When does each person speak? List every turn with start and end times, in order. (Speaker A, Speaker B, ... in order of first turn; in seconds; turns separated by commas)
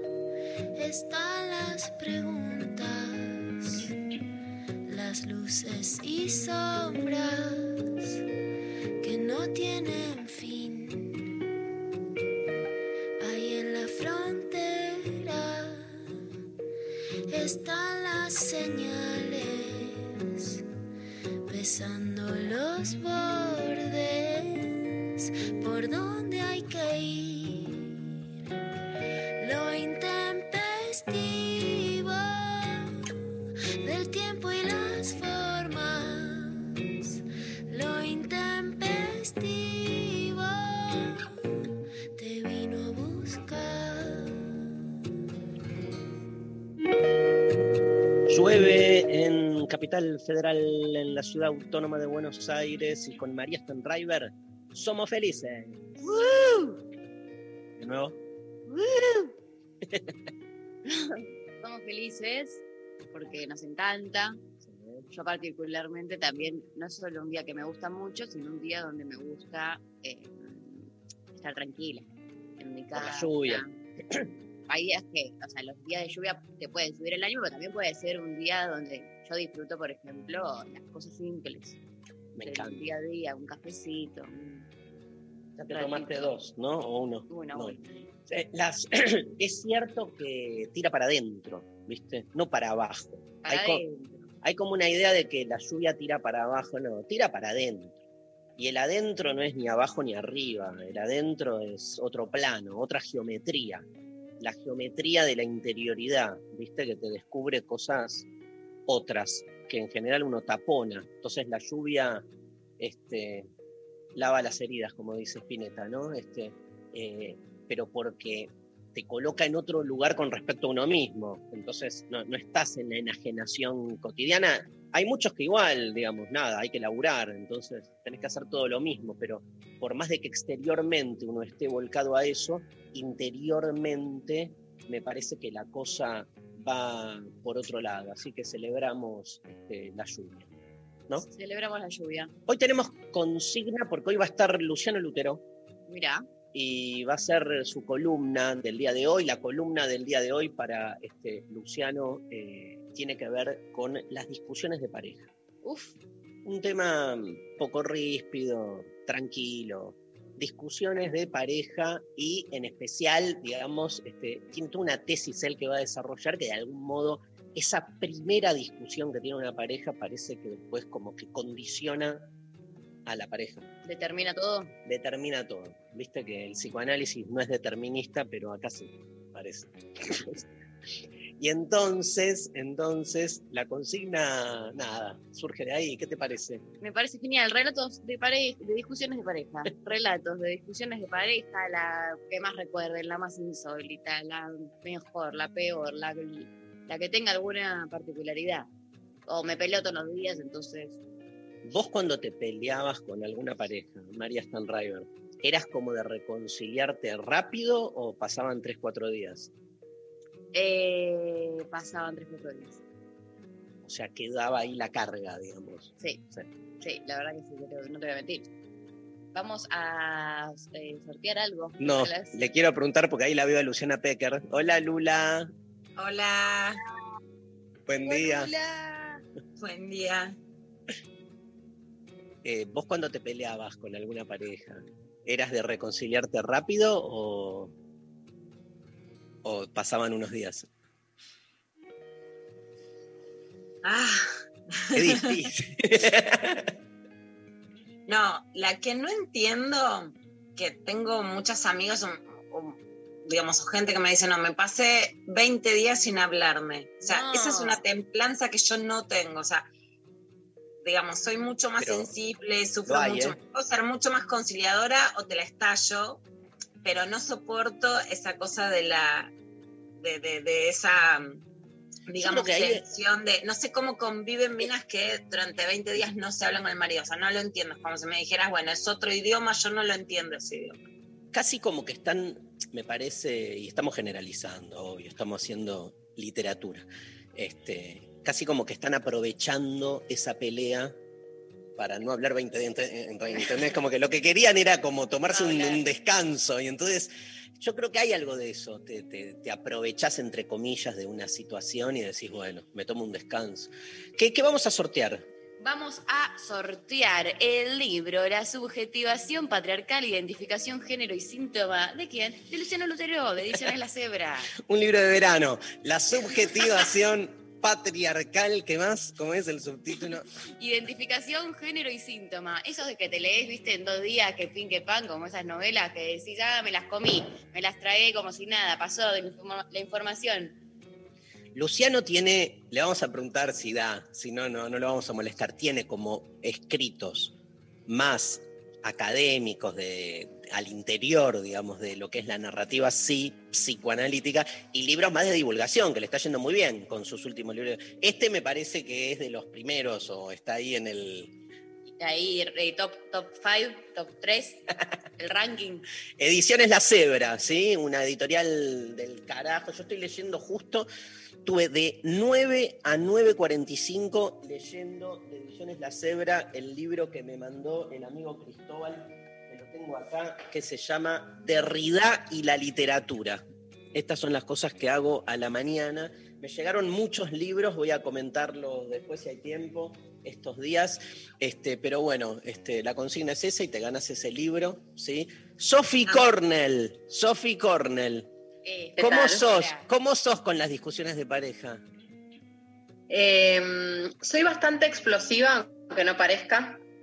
Speaker A: 0.8-3.9, Speaker A: 4.8-7.9, Speaker A: 9.0-11.3, Speaker A: 13.2-16.1, Speaker A: 17.3-20.6, Speaker A: 21.5-28.1, Speaker A: 29.4-32.9, Speaker A: 33.8-37.1, Speaker A: 37.7-41.2, Speaker A: 42.2-44.8, Speaker B: 48.3-56.7, Speaker B: 57.8-58.2, Speaker B: 58.7-59.3, Speaker B: 59.9-60.1, Speaker C: 60.9-62.6, Speaker C: 63.1-64.4, Speaker B: 64.6-65.0, Speaker C: 65.1-72.1, Speaker C: 72.6-73.7, Speaker B: 72.9-74.3, Speaker C: 74.7-81.8, Speaker B: 82.3-82.8, Speaker C: 82.5-84.7, Speaker B: 85.6-93.8, Speaker C: 85.7-86.4, Speaker C: 87.3-88.0, Speaker C: 93.4-94.3, Speaker B: 94.4-98.0, Speaker B: 98.6-103.9, Speaker B: 104.4-108.3, Speaker B: 108.9-112.3, Speaker B: 112.8-113.5, Speaker B: 114.2-140.5, Speaker C: 141.2-142.3, Speaker B: 142.5-145.4, Speaker C: 145.9-146.2, Speaker B: 146.5-155.3, Speaker C: 155.6-155.9, Speaker B: 156.4-172.3, Speaker B: 173.1-173.7, Speaker C: 173.8-174.7, Speaker B: 174.8-180.4, Speaker B: 181.4-186.6, Speaker C: 186.8-198.7, Speaker C: 199.3-201.0, Speaker B: 201.6-209.5, Speaker C: 210.5-212.8, Speaker B: 213.8-216.5, Speaker C: 216.8-218.5, Speaker C: 219.3-222.5, Speaker B: 221.8-225.5, Speaker D: 226.0-226.8, Speaker B: 227.9-228.5, Speaker C: 228.1-229.2, Speaker D: 229.6-230.4, Speaker B: 232.4-237.7, Speaker B: 239.4-240.7, Speaker D: 243.8-244.2, Speaker D: 244.8-245.2, Speaker B: 244.9-246.7, Speaker D: 248.1-259.6, Speaker C: 257.0-257.8, Speaker D: 260.8-266.2, Speaker B: 261.8-262.1, Speaker B: 262.9-263.4, Speaker D: 266.8-269.3, Speaker D: 270.0-271.4, Speaker D: 272.1-280.8, Speaker B: 272.1-272.8, Speaker B: 281.3-291.0, Speaker B: 291.8-305.3, Speaker C: 295.3-295.8, Speaker C: 305.6-314.6, Speaker B: 314.6-320.2, Speaker C: 320.6-330.6, Speaker B: 331.5-337.3, Speaker B: 337.9-351.4, Speaker C: 352.0-354.6, Speaker C: 355.2-355.9, Speaker B: 356.2-360.9, Speaker B: 361.4-388.3, Speaker C: 388.6-389.9, Speaker E: 389.0-389.4, Speaker B: 389.0-391.8, Speaker E: 393.1-396.8